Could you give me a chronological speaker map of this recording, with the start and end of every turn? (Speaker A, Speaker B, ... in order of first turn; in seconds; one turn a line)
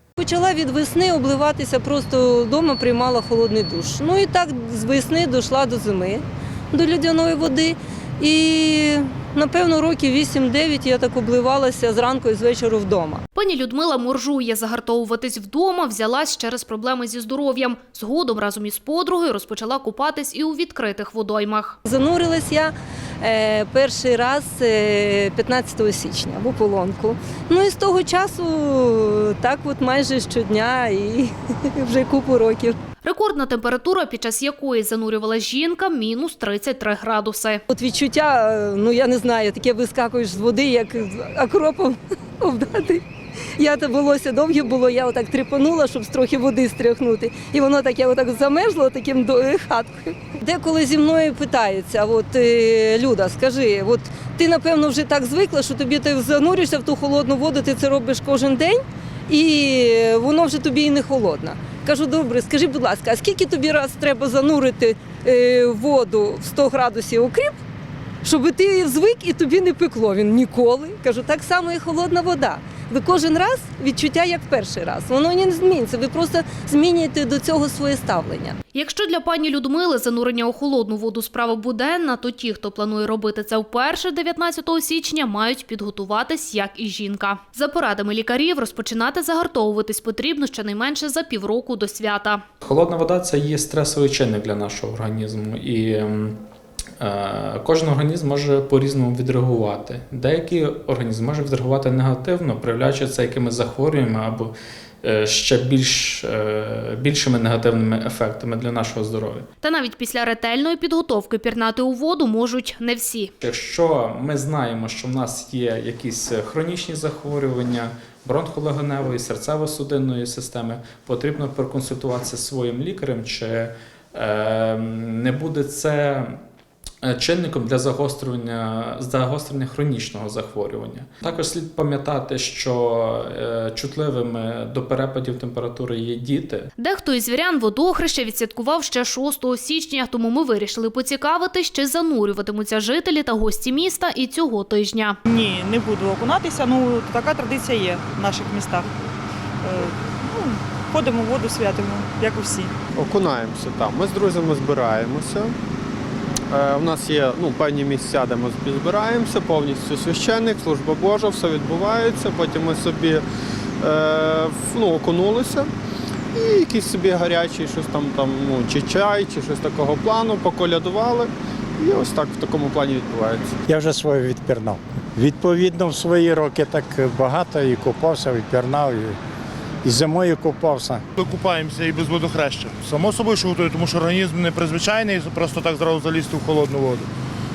Speaker A: 0.2-13.2
Speaker B: 13.3-21.8
Speaker A: 21.9-32.8
Speaker B: 33.0-37.6
Speaker A: 37.7-43.0
Speaker A: 43.6-67.5
Speaker A: 68.2-78.6
Speaker B: 78.7-92.4
Speaker C: 92.6-96.4
Speaker C: 97.0-109.5
Speaker B: 109.6-113.3
Speaker C: 113.4-126.4
Speaker C: 127.0-136.7
Speaker B: 136.8-145.2
Speaker D: 145.2-148.9
Speaker D: 149.6-152.7
Speaker E: 152.9-155.5
Speaker E: 156.5-163.2
Speaker E: 163.8-165.7
Speaker E: 166.3-173.6
Speaker F: 173.7-179.2
Speaker F: 179.8-181.0
Speaker G: 181.2-187.1